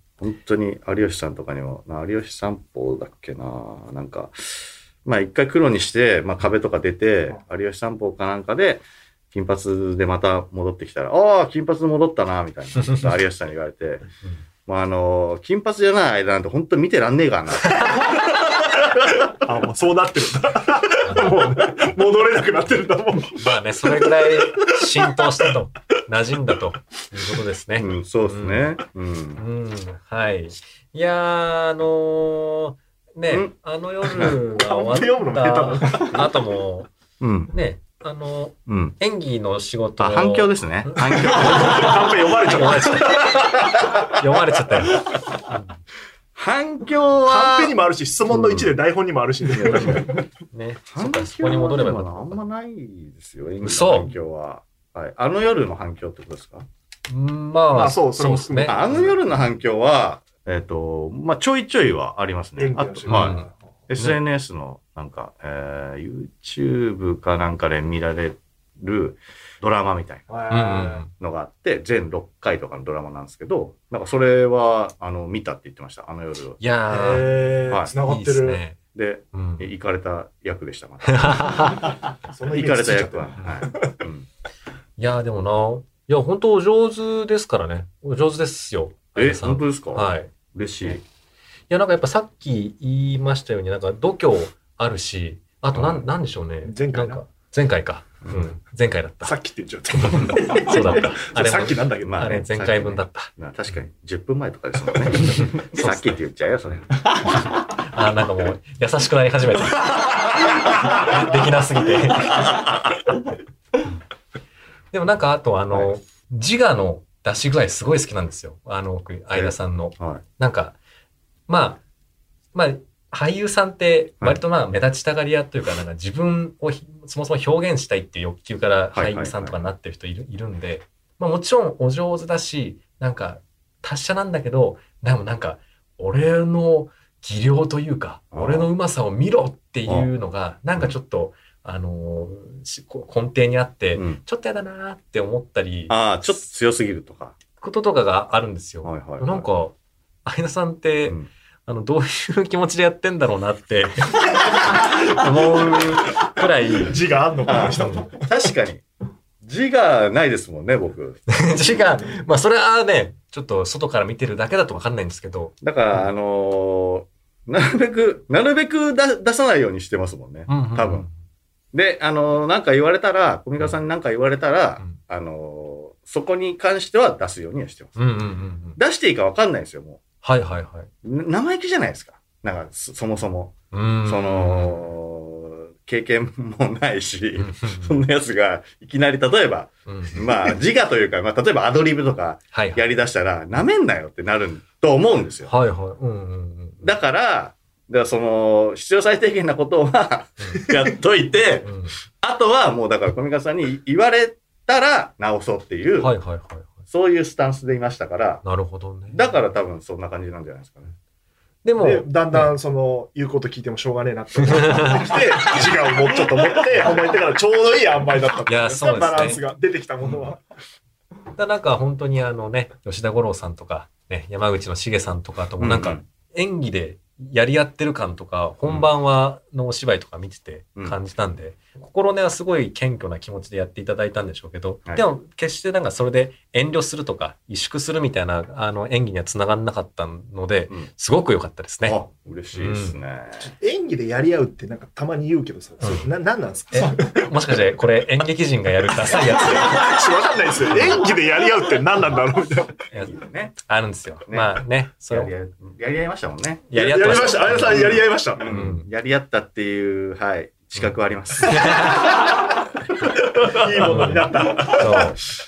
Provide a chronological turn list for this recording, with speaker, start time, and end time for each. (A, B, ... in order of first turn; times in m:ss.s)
0:00.2-0:14.0 A
0:14.6-0:18.2 A
0:19.4-0:25.5 B
0:21.0-0:21.4 C
0:23.4-0:28.7 C
0:27.8-0:29.4 A
0:29.4-0:36.9 C
0:34.3-0:36.3 B
0:37.2-0:37.5 A
0:37.5-0:45.7 C
0:38.7-0:39.0 A
0:40.0-0:42.1 A
0:41.2-0:43.7 B
0:43.4-0:44.1 A
0:46.3-0:47.7 A
0:47.3-0:50.2 B
0:48.3-0:48.8 A
0:49.5-0:50.2 A
0:50.5-0:52.4 C
0:50.9-0:56.6 A
0:53.6-0:54.1 C
0:57.1-0:59.1 C
0:57.7-0:59.1 B
0:58.6-1:03.4 A
1:02.6-1:03.5 B
1:03.1-1:04.2 C
1:03.9-1:10.3 A
1:10.3-1:11.0 B
1:10.5-1:11.1 C
1:11.1-1:16.6 A
1:16.6-1:18.8 C
1:16.9-1:18.6 B
1:18.9-1:21.9 A
1:19.3-1:19.7 C
1:21.0-1:21.9 C
1:22.3-1:24.0 B
1:22.5-1:24.3 A
1:25.0-1:30.3 C
1:29.2-1:31.0 A
1:31.7-1:39.3 C
1:35.7-1:36.0 A
1:36.6-1:37.2 B
1:38.2-1:38.5 A
1:39.2-1:42.3 B
1:40.0-1:43.3 C
1:42.0-1:46.9 A
1:45.2-1:46.2 C
1:47.2-1:52.7 C
1:52.4-1:52.9 A
1:54.9-2:00.8 C
1:59.3-2:00.2 A
2:01.5-2:01.8 C
2:02.5-2:26.4 C
2:08.9-2:09.6 A
2:18.3-2:18.7 A
2:24.0-2:24.2 A
2:25.9-2:27.4 A
2:27.6-2:37.0 C
2:28.8-2:29.4 A
2:36.8-2:38.3 B
2:37.4-2:38.8 A
2:37.6-2:38.1 C
2:39.4-2:41.4 A
2:41.3-2:46.0 C
2:45.6-2:51.1 A
2:50.5-2:51.1 C
2:51.7-2:58.0 A
2:58.0-2:58.8 C
2:58.8-3:00.0 A
3:00.2-3:00.9 C
3:01.0-3:15.5 A
3:03.7-3:04.9 C
3:07.4-3:08.0 C
3:09.8-3:10.2 C
3:12.5-3:12.8 C
3:15.5-3:16.9 C
3:16.8-3:26.1 A
3:21.6-3:22.0 C
3:26.0-3:26.8 C
3:26.9-3:28.4 A
3:28.4-3:29.2 C
3:29.1-3:30.9 A
3:31.6-3:32.5 C
3:31.8-3:40.4 B
3:34.4-3:35.7 C
3:38.5-3:39.4 C
3:41.3-4:02.0 C
3:45.6-3:46.0 A
4:01.8-4:03.5 A
4:02.5-4:03.0 C
4:03.4-4:07.3 B
4:05.8-4:06.1 C
4:06.7-4:10.0 C
4:09.1-4:12.7 B
4:10.7-4:11.0 C
4:12.9-4:15.3 C
4:13.0-4:13.5 A
4:14.3-4:16.7 A
4:16.7-4:18.9 C
4:16.7-4:18.5 B
4:17.5-4:22.1 A
4:21.4-4:22.2 C
4:23.2-4:25.2 B
4:23.8-4:25.2 C